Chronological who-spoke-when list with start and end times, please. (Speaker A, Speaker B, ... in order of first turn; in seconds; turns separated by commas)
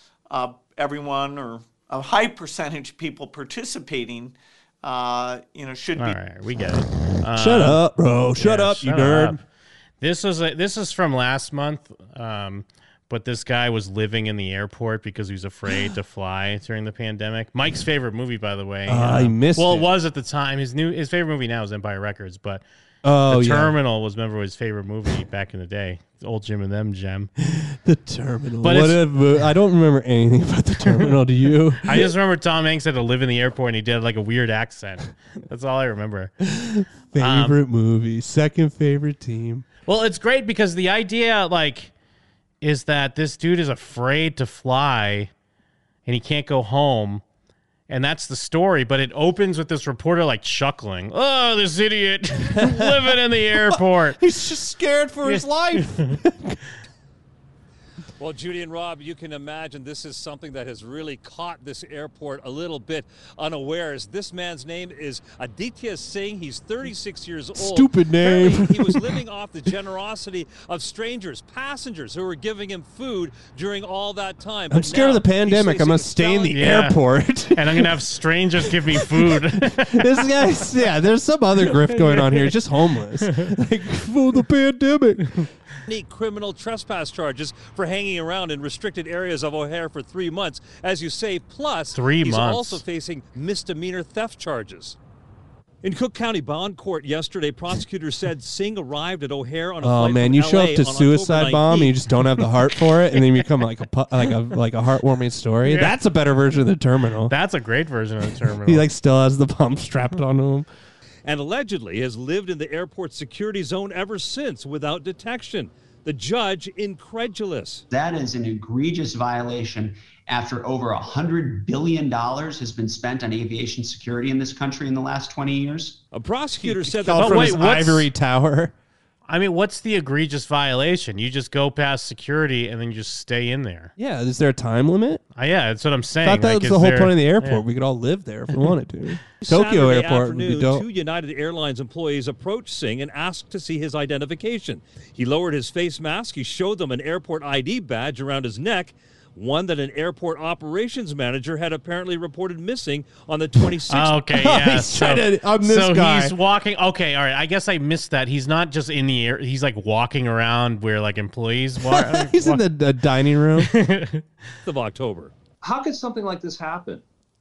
Speaker A: 0.3-6.2, Speaker B: 6.0-7.8, Speaker C: 7.3-9.4, Speaker B: 8.4-9.4, Speaker B: 10.0-22.6, Speaker C: 18.9-19.9, Speaker C: 23.0-23.7, Speaker B: 23.3-27.3, Speaker C: 27.4-32.1, Speaker B: 28.6-29.1, Speaker B: 31.8-36.3, Speaker C: 36.4-39.6, Speaker B: 37.2-37.6, Speaker B: 39.9-41.9, Speaker B: 42.6-45.3, Speaker B: 46.0-47.2, Speaker B: 47.9-54.2, Speaker C: 52.5-56.6, Speaker B: 55.2-55.8, Speaker D: 58.2-76.5, Speaker C: 67.5-69.2, Speaker C: 74.7-77.9, Speaker B: 76.4-77.0, Speaker B: 77.5-80.2, Speaker C: 78.6-85.4, Speaker B: 81.9-82.5, Speaker D: 85.9-95.0, Speaker B: 91.9-92.8, Speaker D: 95.8-102.0, Speaker C: 99.8-107.3, Speaker B: 105.6-105.9, Speaker B: 107.3-108.9, Speaker C: 108.6-110.7, Speaker D: 111.2-117.8, Speaker E: 117.9-126.0, Speaker D: 126.1-127.8, Speaker C: 126.6-128.7, Speaker B: 127.1-128.1, Speaker B: 129.3-133.9, Speaker C: 134.0-135.2, Speaker B: 135.3-137.6, Speaker C: 136.2-140.8, Speaker D: 139.4-154.1, Speaker B: 153.9-162.7, Speaker C: 154.2-156.3, Speaker C: 161.8-163.7, Speaker B: 163.6-164.2, Speaker D: 164.7-165.3